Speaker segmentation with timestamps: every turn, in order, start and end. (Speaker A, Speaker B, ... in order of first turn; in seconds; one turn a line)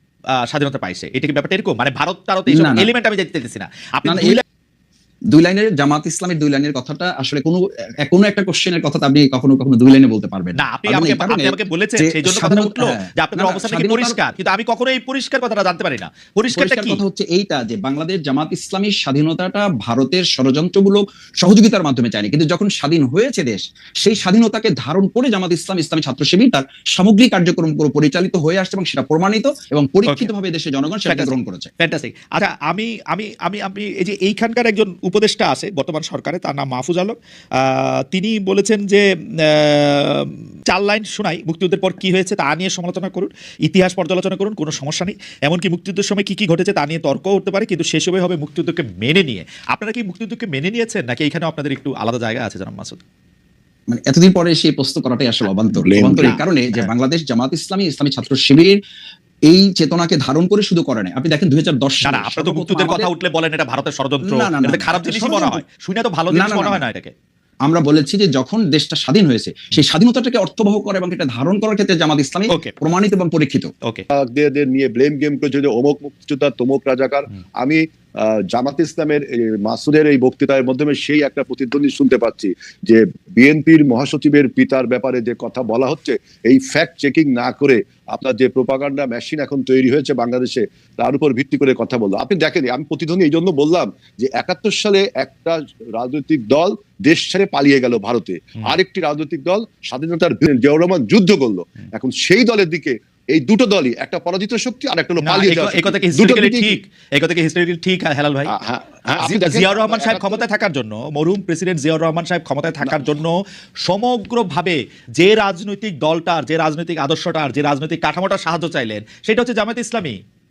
Speaker A: 0.4-4.4
Speaker B: 2.5-2.9
Speaker B: 4.0-4.4
Speaker B: 5.3-14.2
Speaker A: 10.6-17.0
Speaker B: 16.5-31.7
Speaker A: 31.1-53.0
Speaker B: 53.9-58.8
Speaker C: 55.8-56.4
Speaker B: 59.5-63.1
Speaker A: 62.0-67.1
Speaker B: 64.2-65.6
Speaker B: 66.3-66.8
Speaker B: 67.7-73.7
Speaker C: 74.1-106.8
Speaker A: 105.2-108.5
Speaker C: 108.5-110.5
Speaker A: 109.2-120.2